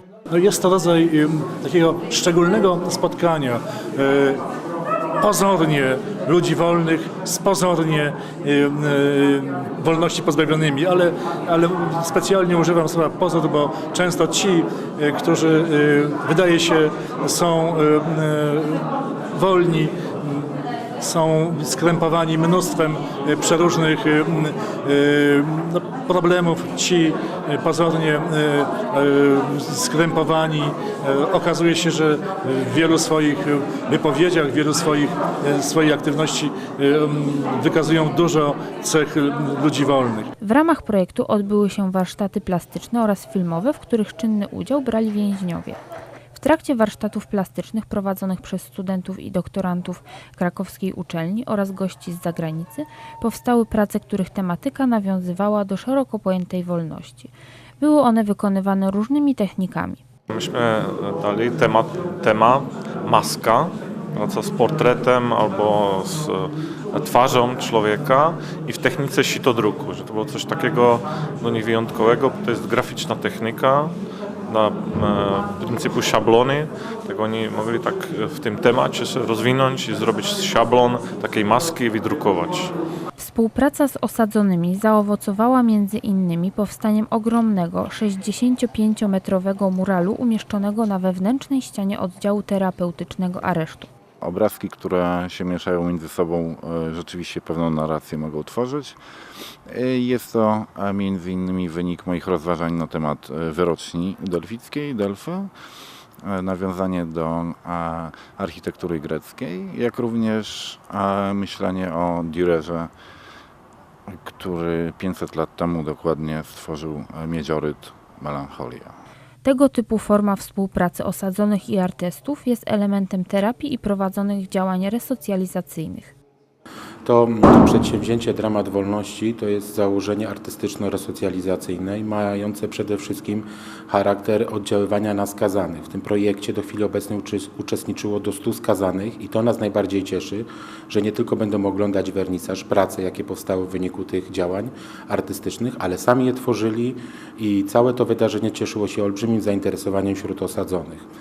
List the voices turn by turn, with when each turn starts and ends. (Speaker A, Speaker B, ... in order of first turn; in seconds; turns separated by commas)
Speaker A: 0.3-4.4, Speaker A: 5.2-40.3, Speaker B: 40.4-45.8, Speaker B: 46.3-60.0, Speaker C: 60.3-73.9, Speaker C: 74.5-82.7, Speaker B: 83.2-93.9, Speaker D: 94.2-99.0, Speaker D: 99.7-105.5, Speaker D: 106.2-112.9, Speaker D: 114.1-119.0, Speaker B: 119.4-126.1, Speaker E: 127.0-151.0